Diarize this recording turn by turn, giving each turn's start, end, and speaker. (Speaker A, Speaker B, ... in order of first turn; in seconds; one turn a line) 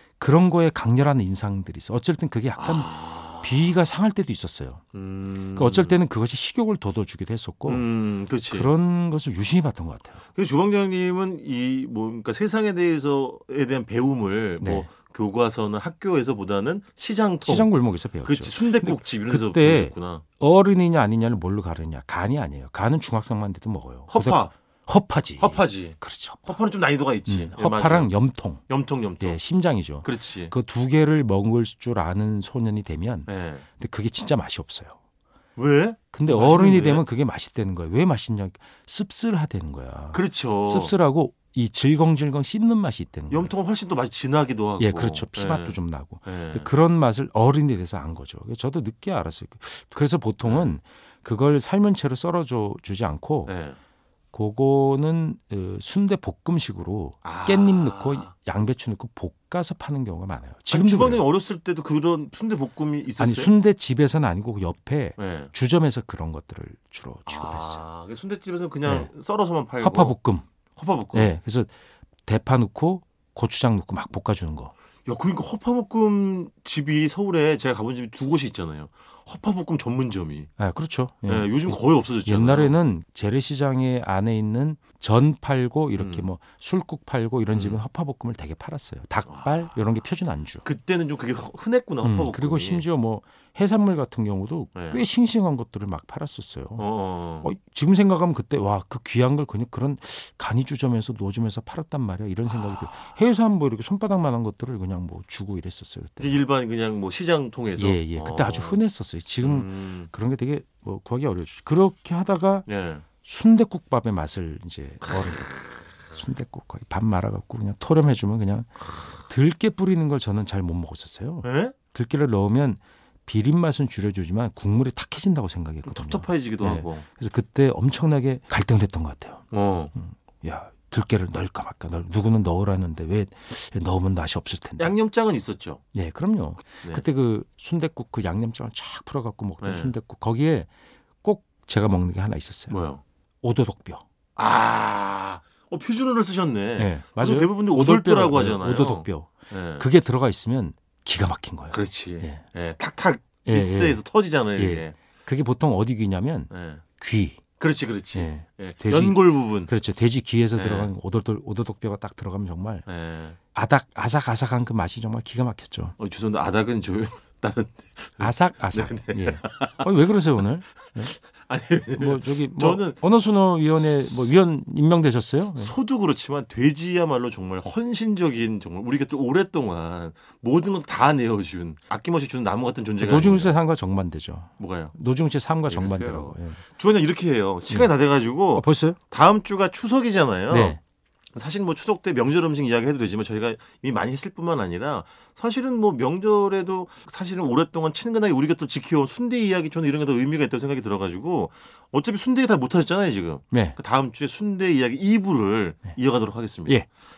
Speaker A: 0.2-4.8
Speaker B: 2.6-3.7
Speaker B: 4.9-6.0
Speaker A: 5.5-7.9
Speaker B: 7.7-8.7
Speaker A: 8.4-10.2
Speaker B: 10.3-20.2
Speaker A: 14.6-14.9
Speaker A: 17.4-26.6
Speaker B: 24.1-24.5
Speaker B: 25.4-29.4
Speaker A: 27.3-28.6
Speaker A: 29.2-35.0
Speaker B: 30.0-30.5
Speaker B: 33.3-33.6
Speaker B: 35.6-37.1
Speaker A: 36.1-43.5
Speaker B: 40.1-41.0
Speaker B: 43.3-46.7
Speaker A: 44.8-53.6
Speaker B: 50.4-50.7
Speaker B: 53.5-53.8
Speaker A: 54.3-61.2
Speaker B: 57.2-58.3
Speaker B: 60.7-63.5
Speaker A: 63.2-67.8
Speaker B: 65.2-65.5
Speaker B: 67.3-70.2
Speaker A: 68.8-69.1
Speaker A: 69.8-70.5
Speaker B: 70.8-71.4
Speaker A: 71.1-71.7
Speaker A: 72.2-74.7
Speaker B: 75.1-80.5
Speaker A: 80.6-90.7
Speaker B: 81.3-82.8
Speaker B: 86.0-86.3
Speaker B: 87.5-87.8
Speaker B: 89.3-89.6
Speaker B: 90.6-92.8
Speaker A: 92.0-96.9
Speaker B: 94.8-95.0
Speaker B: 96.8-97.5
Speaker A: 97.4-106.4
Speaker B: 106.2-108.8
Speaker A: 107.8-112.7
Speaker B: 109.4-110.1
Speaker B: 112.7-113.0
Speaker A: 113.2-129.4
Speaker B: 121.4-121.8
Speaker B: 125.8-127.0
Speaker B: 129.5-129.9
Speaker A: 130.0-134.9
Speaker B: 134.8-135.8
Speaker A: 135.9-140.7
Speaker B: 139.6-139.9
Speaker A: 141.2-142.8
Speaker B: 142.7-143.0
Speaker A: 143.4-144.0
Speaker B: 144.4-149.9
Speaker A: 146.8-152.4
Speaker B: 151.7-155.0
Speaker A: 153.5-154.0
Speaker A: 154.6-157.4
Speaker B: 156.5-156.8
Speaker B: 157.6-159.7
Speaker A: 158.1-162.9
Speaker B: 160.6-160.9
Speaker B: 162.9-163.4
Speaker A: 163.5-166.0
Speaker B: 166.0-169.9
Speaker A: 168.2-171.2
Speaker B: 171.0-173.0
Speaker A: 171.9-175.8
Speaker B: 175.6-183.6
Speaker A: 183.0-186.6
Speaker B: 184.6-184.9
Speaker B: 185.7-190.8
Speaker A: 188.5-189.0
Speaker A: 190.5-190.8
Speaker B: 191.3-206.8
Speaker A: 203.5-203.8